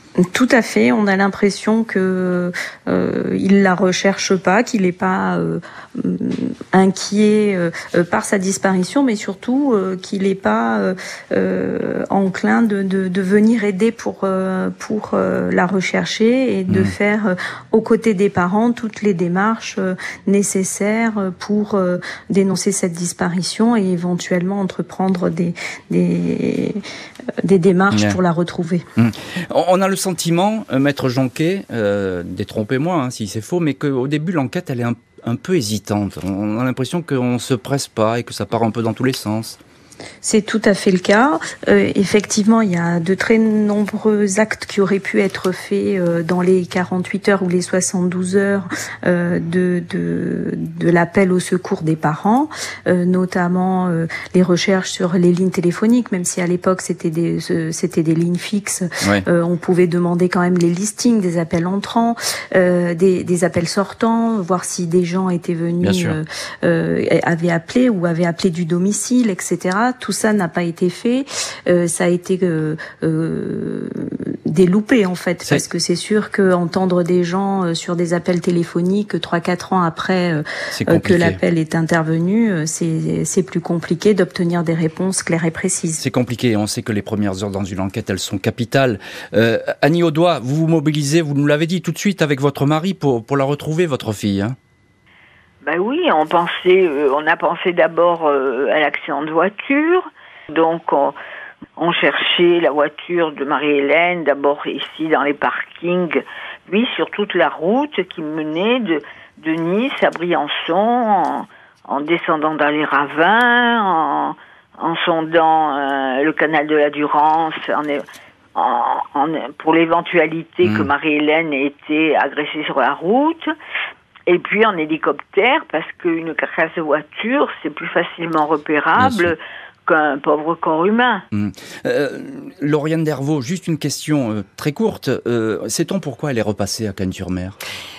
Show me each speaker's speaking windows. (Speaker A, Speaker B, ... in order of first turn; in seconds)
Speaker A: 0.2-26.8, 27.4-28.9, 40.2-86.0
Speaker B: 16.7-16.9, 27.9-28.2, 29.0-39.6, 65.8-66.2, 80.7-81.4, 86.0-94.6, 120.6-120.9, 129.0-129.3, 131.3-137.6
Speaker C: 95.6-101.2, 101.8-118.0, 118.5-123.5, 124.3-131.2